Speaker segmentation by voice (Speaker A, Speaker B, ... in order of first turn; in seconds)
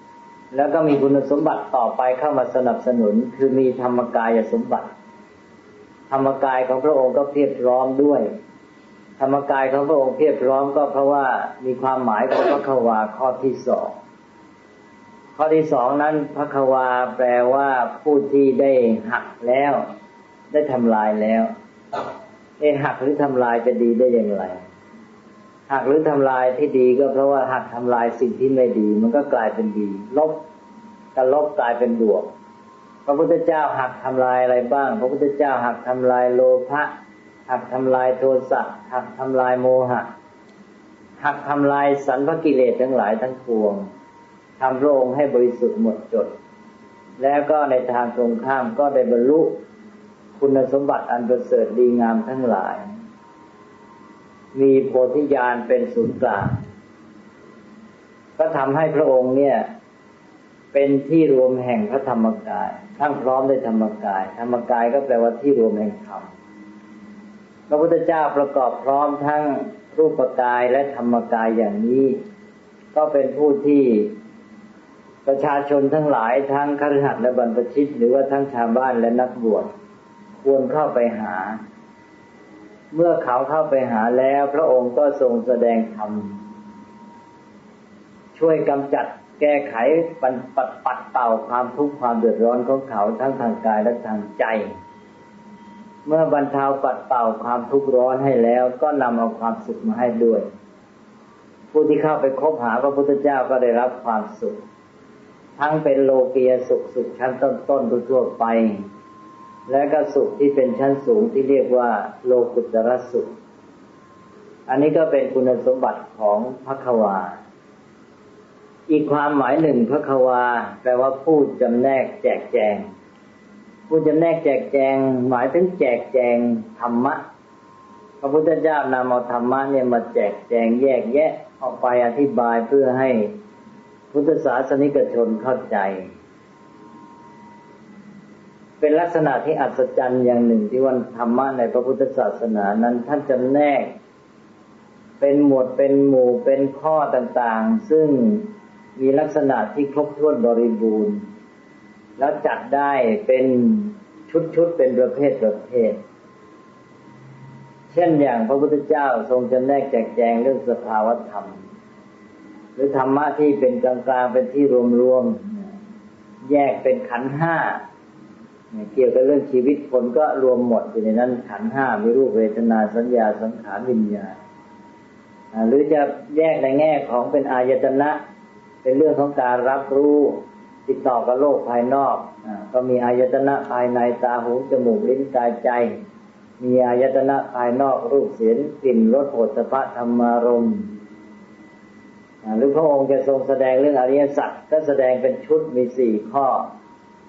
Speaker A: 0.5-4.9, 6.1-8.3, 9.2-14.0, 15.4-19.8, 20.5-21.5, 22.6-24.6, 25.7-30.4, 31.1-32.3, 33.1-36.9, 37.5-40.1, 41.2-43.9, 44.6-46.3, 47.2-49.6, 50.4-52.9, 54.5-56.5, 58.4-59.7, 60.7-66.3, 67.7-72.2, 72.9-74.1, 75.2-79.7, 80.4-81.6, 82.9-86.4, 88.3-94.7, 96.0-100.5, 101.7-104.6, 105.6-108.8, 109.7-113.3, 114.7-117.4, 118.9-122.9, 123.9-127.2, 128.2-133.3, 134.1-136.1, 138.8-143.9, 145.2-151.2, 152.2-156.0, 157.9-161.6, 162.8-165.7, 166.4-167.8, 168.7-174.4, 175.5-178.2, 178.8-186.0, 186.6-190.9, 192.4-196.7